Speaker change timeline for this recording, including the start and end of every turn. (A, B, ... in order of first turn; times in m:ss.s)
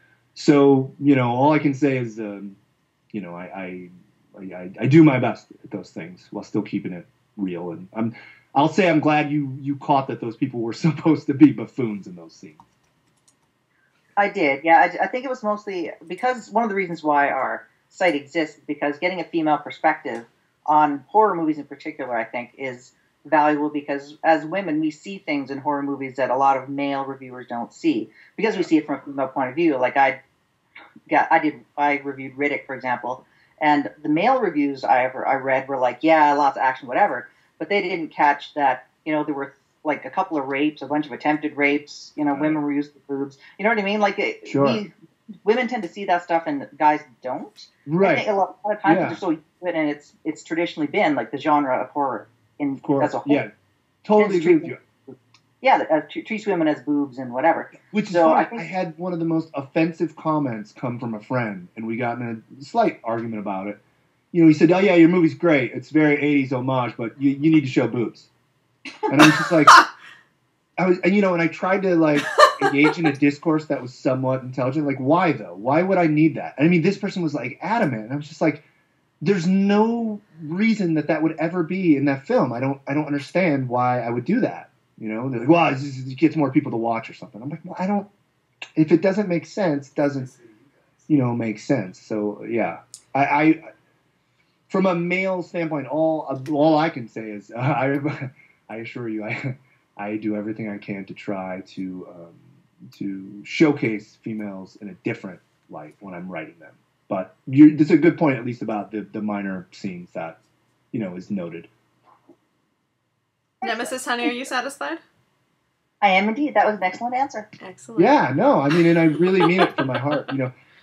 0:00.3-0:02.6 A
0:03.1-0:12.6 A
0:14.2-0:30.2 B
0:31.1-0:44.9 B
0:42.3-0:42.6 A
0:44.4-0:44.8 A
0:45.4-0:53.4 B
0:47.8-0:48.2 A
0:48.8-0:49.2 A
0:52.8-0:53.5 A
0:54.0-0:54.8 A
0:54.2-0:58.6 B
0:57.8-1:03.8 A
1:04.3-1:08.3 A
1:09.1-1:09.8 A
1:10.8-1:18.6 A
1:19.2-1:28.1 A
1:28.8-1:30.3 A
1:31.1-1:33.7 A
1:34.7-1:50.4 A
1:50.9-1:51.7 A
1:53.6-1:53.9 B
1:53.6-1:55.0 C
1:56.0-1:57.5 B
1:57.6-1:58.2 C
1:58.0-2:00.5 A